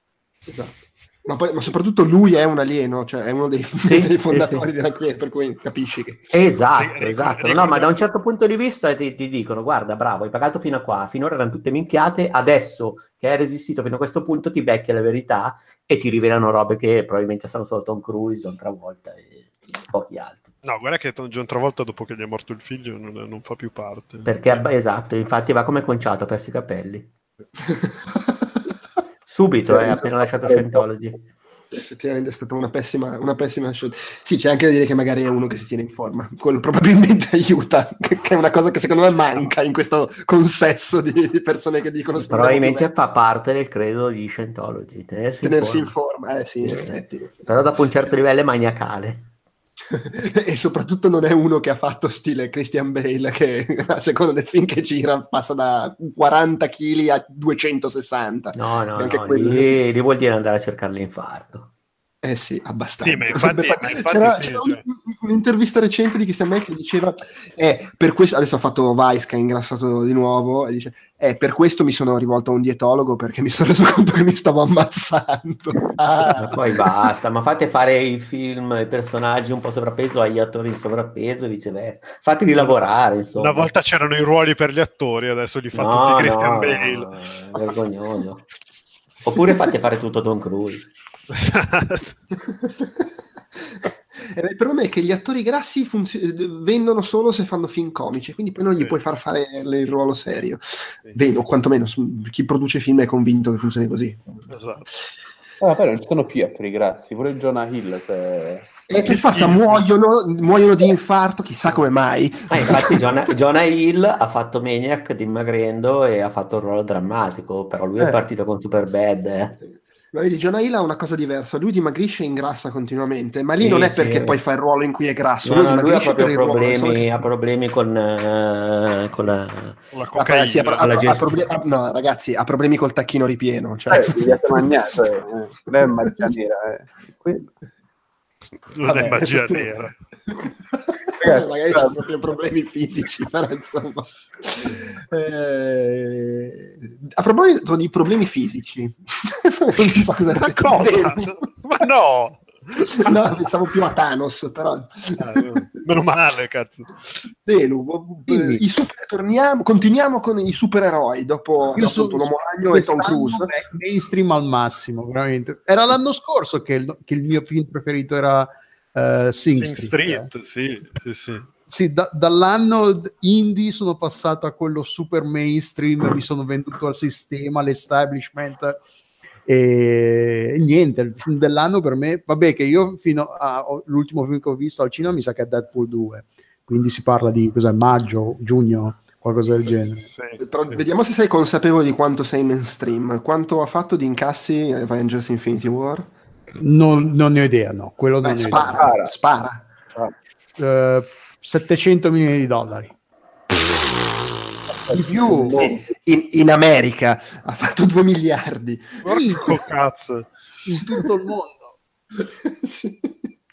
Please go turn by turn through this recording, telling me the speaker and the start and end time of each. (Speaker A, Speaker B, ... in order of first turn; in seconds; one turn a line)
Speaker A: 0.5-6.3
Speaker B: 3.8-4.7
Speaker B: 6.3-20.5
Speaker C: 6.8-8.1
Speaker C: 20.6-24.6
Speaker B: 24.2-27.1
Speaker A: 27.7-28.5
Speaker B: 29.3-31.2
Speaker D: 29.7-30.8
Speaker A: 31.7-42.9
Speaker B: 42.2-45.9
Speaker A: 45.4-47.5
Speaker B: 46.6-49.3
Speaker A: 49.9-59.8
Speaker B: 58.5-61.7
Speaker A: 62.2-76.8
Speaker C: 63.0-64.8
Speaker B: 76.3-83.7
Speaker C: 83.4-87.2
Speaker B: 85.7-88.5
Speaker B: 89.2-90.9
Speaker C: 91.3-92.2
Speaker A: 92.7-104.5
Speaker C: 104.5-104.9
Speaker D: 105.6-108.9
Speaker A: 108.9-113.1
Speaker C: 109.0-109.8
Speaker B: 112.5-119.6
Speaker A: 119.6-127.2
Speaker B: 123.6-124.4
Speaker B: 125.4-129.8
Speaker C: 129.9-131.2
Speaker A: 130.2-134.6
Speaker B: 130.8-131.4
Speaker D: 133.9-137.5
Speaker A: 136.0-136.3
Speaker C: 138.7-140.0
Speaker A: 138.8-139.7
Speaker A: 140.3-151.4
Speaker D: 141.2-142.1
Speaker C: 150.4-152.9
Speaker A: 152.8-155.5
Speaker C: 155.2-156.9
Speaker A: 157.4-163.5
Speaker E: 158.3-158.6
Speaker E: 161.8-170.3
Speaker C: 169.5-171.5
Speaker E: 171.7-178.8
Speaker E: 179.5-190.1
Speaker C: 190.1-190.8
Speaker A: 190.4-196.1
Speaker E: 196.6-198.8
Speaker A: 198.2-199.7
Speaker D: 198.6-199.1
Speaker E: 200.6-202.9
Speaker D: 204.9-205.8
Speaker E: 204.9-205.7
Speaker A: 205.3-209.6
Speaker C: 209.0-210.3
Speaker E: 209.1-209.5
Speaker E: 210.7-211.7
Speaker A: 212.2-213.2